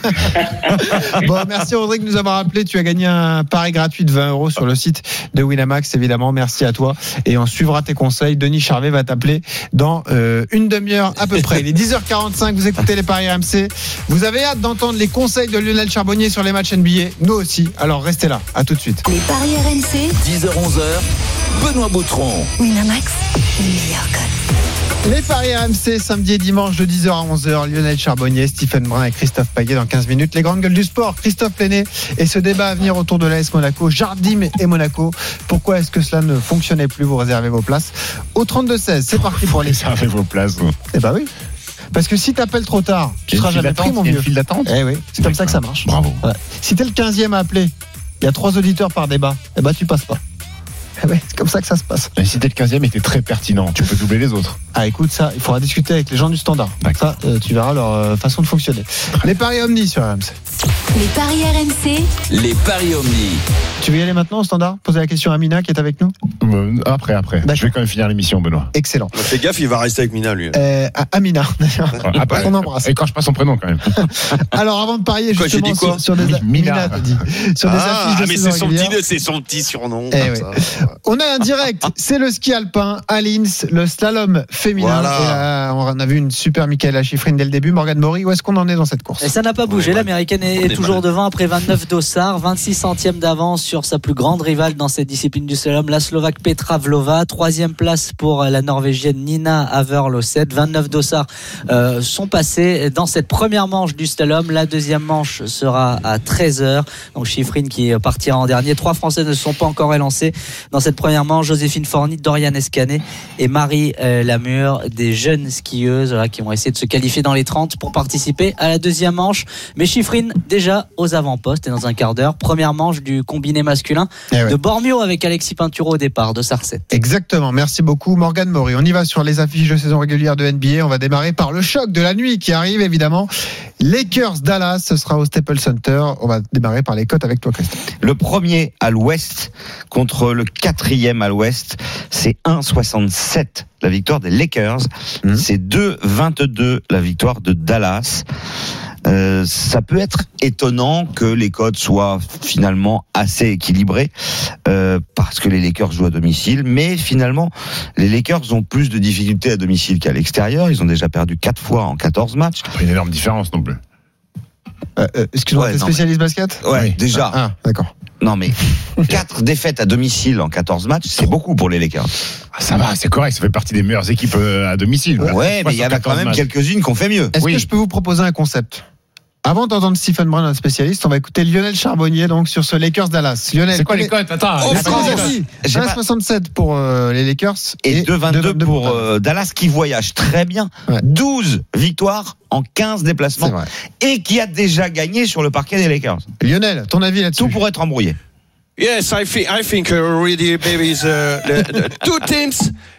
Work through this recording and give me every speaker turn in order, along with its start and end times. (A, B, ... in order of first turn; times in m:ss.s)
0:00.8-0:19.0 A
0:19.0-0:20.2 B
0:20.2-0:21.0 C
0:21.6-0:22.5 C
0:22.6-0:24.3 B
0:25.0-0:39.8 A
0:39.3-0:40.7 D
0:40.9-0:41.3 A
0:41.9-0:50.2 A
0:43.3-0:46.2 D
0:51.0-0:52.1 A
0:52.2-0:54.6 D
0:54.7-1:00.3 A
1:00.9-1:02.1 B
1:02.3-1:03.4 C
1:03.8-1:06.1 A
1:06.4-1:08.7 D
1:08.7-1:09.1 A
1:09.1-1:10.6 E
1:10.5-1:13.0 A
1:12.0-1:13.8 D
1:13.9-1:19.0 A
1:15.3-1:16.0 E
1:16.2-1:17.0 D
1:17.6-1:20.6 E
1:20.1-1:29.3 A
1:24.8-1:25.4 E
1:29.2-2:06.8 F
1:29.7-1:30.1 E
1:30.6-1:31.0 E
2:04.3-2:04.6 A
2:06.9-2:17.8 A
2:18.0-2:28.2 G
2:29.0-2:34.1 G
2:34.6-2:42.7 G
2:42.7-2:43.8 D
2:45.0-2:46.6 A
2:45.5-2:46.0 G
2:46.6-2:47.4 G
2:47.2-2:47.9 A
2:48.2-2:52.1 G
2:52.6-2:56.4 D
2:55.2-2:57.4 G
2:57.3-2:58.8 A
2:57.4-2:57.7 D
2:59.4-3:04.1 A
3:03.7-3:05.3 D
3:04.6-3:05.4 E
3:04.7-3:09.0 A
3:04.7-3:06.0 G
3:07.8-3:16.3 G
3:13.4-3:13.7 A
3:16.4-3:17.6 A
3:17.4-3:18.2 G
3:18.8-3:22.7 E